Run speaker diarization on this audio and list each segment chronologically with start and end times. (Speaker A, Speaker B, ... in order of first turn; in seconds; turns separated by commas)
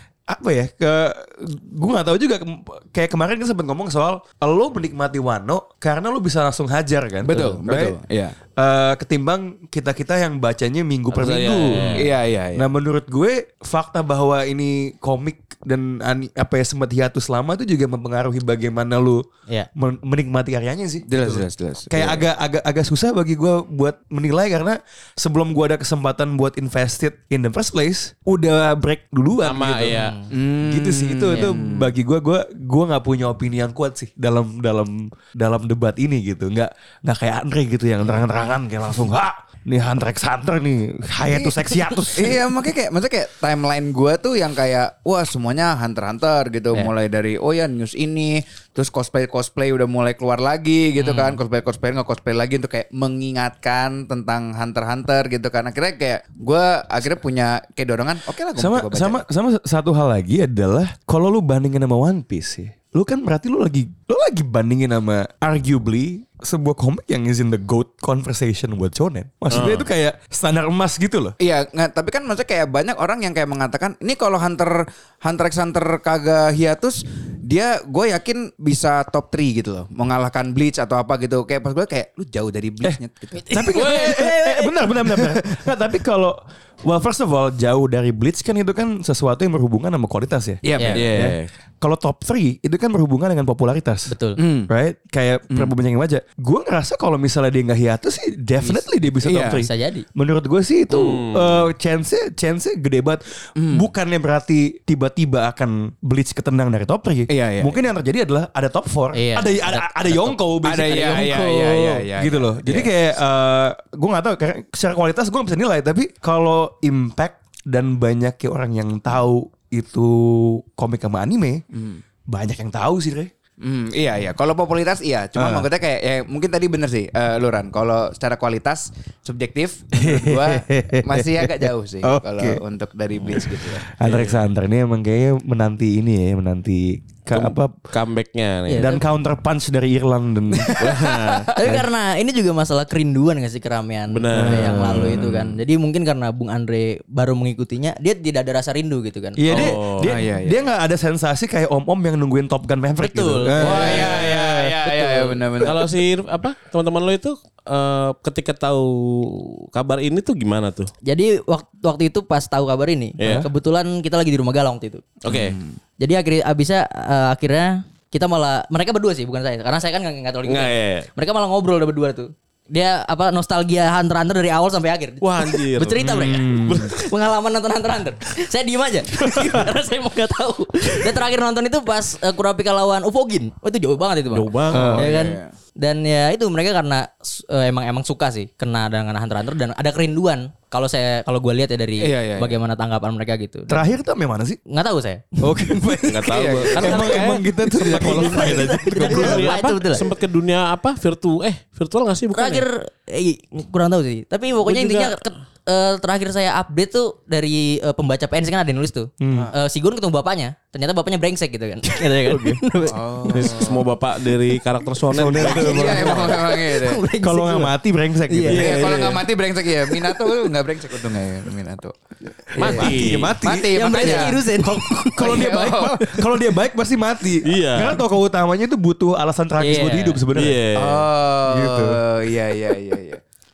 Speaker A: 0.3-8.0, Speaker B: 7.2-8.3, Speaker A: 8.6-19.2, Speaker C: 11.1-12.1, Speaker B: 11.9-12.7, Speaker A: 19.8-42.5, Speaker B: 21.1-22.2, Speaker C: 29.4-30.2, Speaker D: 29.9-30.3, Speaker B: 30.3-31.9, Speaker B: 41.3-59.2, Speaker D: 51.0-51.4, Speaker A: 58.5-71.4, Speaker C: 69.5-69.9, Speaker B: 71.4-84.0, Speaker D: 83.3-84.7, Speaker A: 83.5-94.1, Speaker B: 90.6-91.3, Speaker D: 90.8-91.0, Speaker C: 90.9-91.4, Speaker D: 94.1-94.4, Speaker B: 94.4-94.7, Speaker A: 94.7-121.6, Speaker B: 99.2-99.7, Speaker D: 99.4-100.0, Speaker C: 100.9-101.7, Speaker B: 103.6-103.9, Speaker B: 107.3-107.8, Speaker D: 109.1-111.4, Speaker B: 110.6-112.9, Speaker B: 121.7-122.0, Speaker A: 122.3-123.3, Speaker B: 123.6-133.8, Speaker A: 125.3-125.7, Speaker A: 129.9-132.6, Speaker A: 133.2-137.9, Speaker C: 134.0-134.5, Speaker C: 137.3-139.0, Speaker D: 138.7-139.0, Speaker A: 138.7-141.1, Speaker B: 140.6-141.5, Speaker C: 140.8-141.5, Speaker D: 141.6-149.7, Speaker A: 141.6-141.9, Speaker C: 144.1-145.2, Speaker A: 144.3-145.5, Speaker A: 149.4-154.7, Speaker C: 149.5-150.2, Speaker B: 150.0-150.7, Speaker D: 153.0-154.3, Speaker B: 153.6-155.9, Speaker C: 153.7-154.3, Speaker D: 154.8-155.5, Speaker C: 155.6-160.9, Speaker D: 161.0-165.1, Speaker C: 163.2-163.5, Speaker A: 163.2-163.5, Speaker C: 165.2-165.6, Speaker B: 165.3-165.8, Speaker D: 166.0-193.8, Speaker C: 170.4-171.1, Speaker C: 175.2-176.9, Speaker A: 176.0-176.9, Speaker A: 179.2-179.6, Speaker C: 184.3-185.1, Speaker A: 184.7-185.1, Speaker B: 184.7-185.5, Speaker B: 192.0-192.6, Speaker A: 193.7-194.6, Speaker D: 194.7-196.0, Speaker A: 195.4-199.6, Speaker C: 196.1-202.6, Speaker B: 196.2-197.3, Speaker D: 197.7-200.1, Speaker D: 202.3-213.7, Speaker C: 204.7-205.2, Speaker A: 209.2-209.5, Speaker A: 211.9-212.6, Speaker B: 212.9-213.8, Speaker C: 213.3-216.3, Speaker A: 215.1-216.5, Speaker D: 215.4-217.8, Speaker B: 215.5-217.0, Speaker A: 217.2-218.8, Speaker D: 218.3-218.7, Speaker C: 218.5-219.3, Speaker B: 218.5-221.9, Speaker D: 220.0-220.3, Speaker B: 222.5-224.4, Speaker A: 222.5-230.6, Speaker C: 222.6-223.4, Speaker D: 223.7-225.5, Speaker B: 225.2-226.0, Speaker C: 227.4-228.0, Speaker D: 229.6-230.2, Speaker C: 230.3-231.1, Speaker B: 230.7-233.2, Speaker A: 231.5-232.0